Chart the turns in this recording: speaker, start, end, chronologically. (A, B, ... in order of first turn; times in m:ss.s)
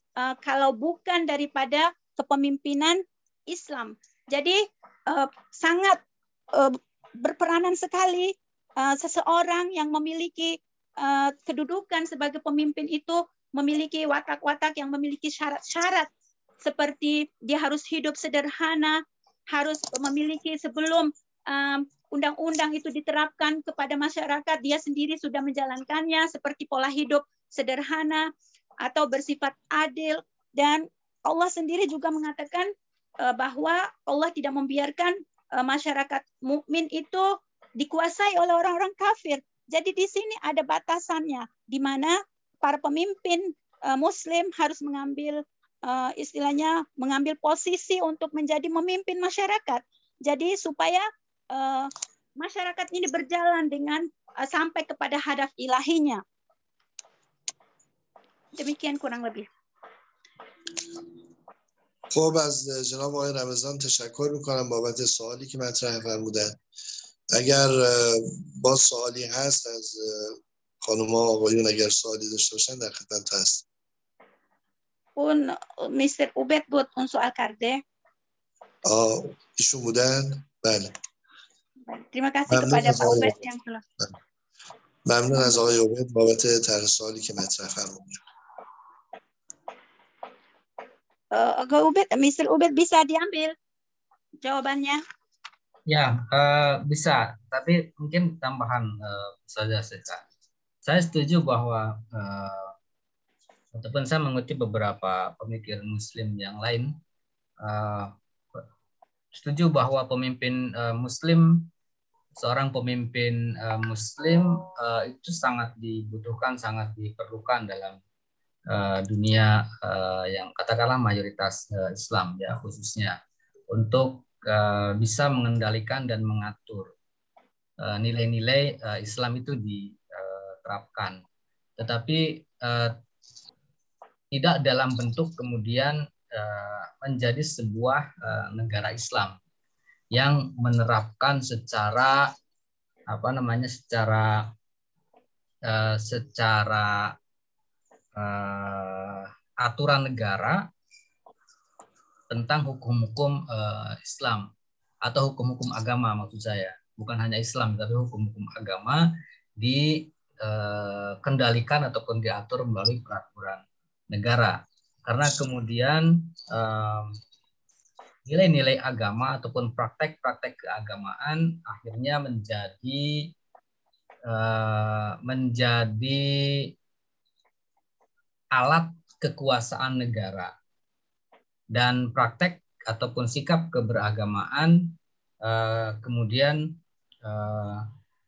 0:00.2-0:06.0 A
0:06.6-0:16.1 A
0:16.6-0:19.0 A
0:19.5-0:28.3 A
0:28.8-0:56.2 A
0:58.6-0:59.5 A
1:02.1-1:06.6 B
1:07.3-1:13.6 B
1:15.2-1:17.8 A
1:18.9-1:20.9 B
1:21.9-1:23.8 A
1:22.5-1:23.4 B
1:25.1-1:28.2 B
1:31.3-1:33.5 A
1:34.4-1:35.0 A
1:35.9-1:40.2 C
1:40.8-1:42.7 C
1:43.7-1:47.0 C
1:47.6-1:48.2 C
1:49.4-1:51.7 C
1:52.4-1:58.0 C
1:58.7-2:03.2 C
2:03.7-2:06.9 C
2:07.8-2:11.2 C
2:11.8-2:13.0 C
2:14.3-2:19.4 C
2:20.1-2:22.4 C
2:23.1-2:24.5 C
2:25.7-2:27.2 C
2:28.2-2:30.6 C
2:32.3-2:34.5 C
2:35.0-2:47.2 C
2:48.3-2:53.3 C
2:54.3-2:56.7 C
2:58.5-3:00.5 C
3:01.7-3:07.9 C